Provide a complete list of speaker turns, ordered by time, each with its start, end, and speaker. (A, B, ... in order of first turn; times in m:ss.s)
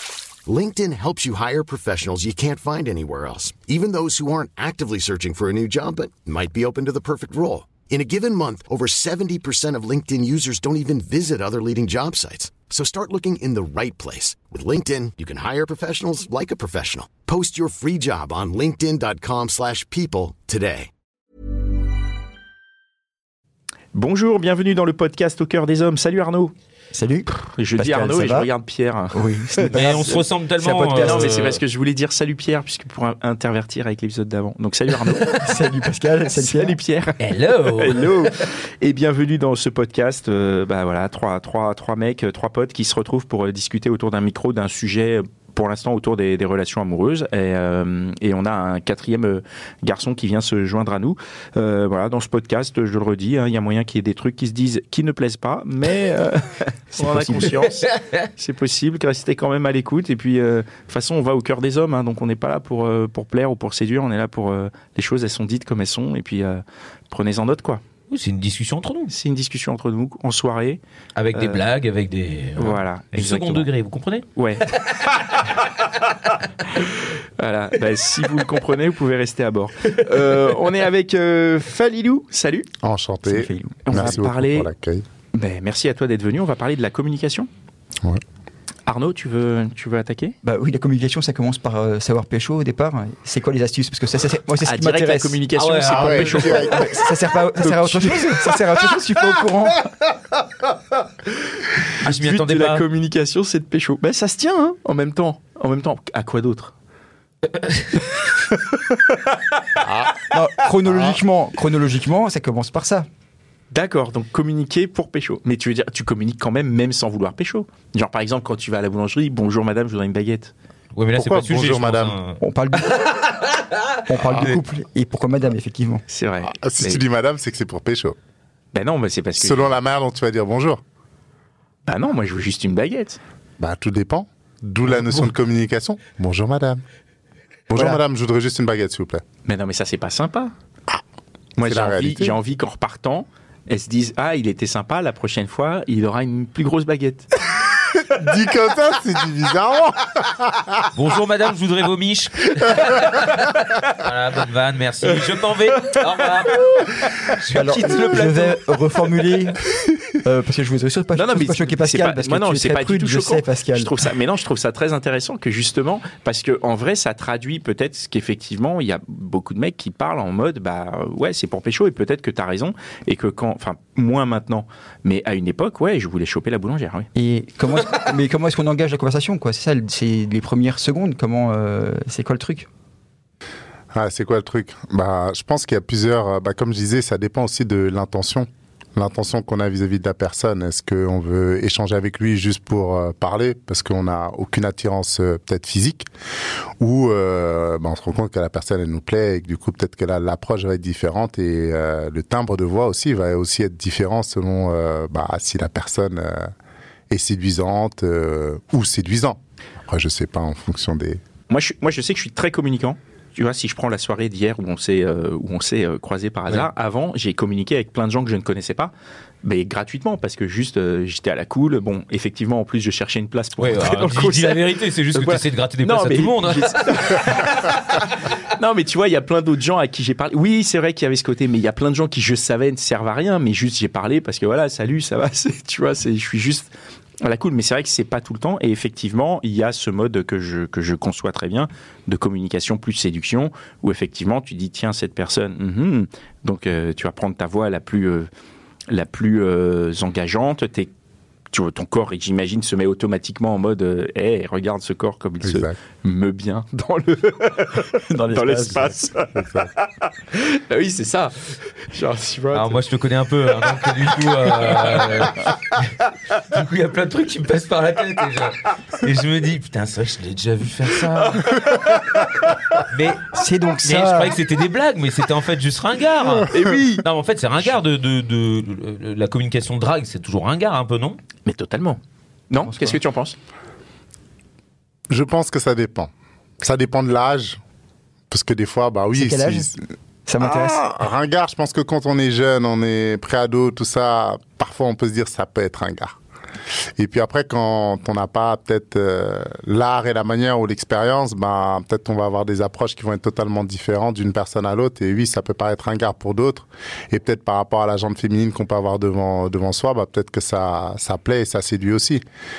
0:00.4-0:20.9 A
0:23.9-0:26.5 B
0:26.9-0:28.5 C
0:27.4-0:30.2 B
0:29.1-0:31.3 C
0:29.7-0:31.6 D
0:31.0-0:35.6 B
0:35.2-0:36.8 C
0:36.4-0:37.2 B
0:37.2-0:38.3 D
0:37.8-1:07.8 B
0:57.0-0:57.5 C
0:57.7-0:58.3 D
1:08.1-1:09.1 D
1:09.1-1:10.8 B
1:11.2-1:14.2 D
1:11.3-1:11.6 B
1:12.6-1:13.7 B
1:14.4-1:14.7 B
1:16.8-1:22.7 B
1:22.8-1:25.0 E
1:23.2-1:24.2 C
1:23.8-1:24.7 B
1:25.3-1:27.5 B
1:28.9-1:30.4 B
1:30.4-1:35.4 C
1:34.6-1:37.0 B
1:35.5-1:36.7 D
1:35.9-1:36.9 E
1:36.6-1:39.9 C
1:37.6-1:38.6 B
1:41.9-1:42.8 D
1:42.0-1:46.7 B
1:47.5-1:48.0 D
1:48.0-1:49.4 B
1:49.8-1:50.2 E
1:50.3-1:53.1 C
1:50.8-1:51.2 E
1:53.7-2:00.5 B
2:01.0-2:04.6 D
2:01.1-2:02.2 E
2:02.4-2:03.0 C
2:04.1-2:06.0 C
2:06.1-2:07.0 B
2:06.4-2:08.2 E
2:08.7-2:09.6 B
2:09.4-2:10.8 E
2:11.9-2:13.2 B
2:13.6-2:16.8 E
2:17.7-2:19.2 E
2:19.4-2:20.5 B
2:21.6-2:22.3 E
2:21.6-2:27.4 B
2:27.8-2:30.9 E
2:30.9-2:38.6 D
2:35.8-2:36.6 B
2:37.5-2:43.9 C
2:41.1-2:57.1 B
2:57.2-3:02.7 C
3:03.9-3:16.1 E
3:16.8-3:26.5 E
3:27.1-3:31.2 E
3:31.5-3:38.9 B
3:39.4-4:08.3 B
3:43.6-3:48.0 D
4:08.9-4:10.9 B
4:11.5-4:22.8 B
4:15.4-4:15.8 E
4:18.0-4:18.9 C
4:19.3-4:19.7 E
4:22.5-4:32.0 D
4:23.7-4:25.5 B
4:31.4-4:31.9 B
4:32.7-4:33.3 D
4:33.3-4:34.3 C
4:33.8-4:41.2 D
4:36.5-4:37.0 B
4:41.4-4:43.4 B
4:42.6-4:43.0 C
4:45.1-4:47.6 E
4:48.3-4:49.8 E
4:49.1-4:49.7 C
4:50.3-4:50.8 C
4:50.4-4:56.2 E
4:57.0-5:12.2 E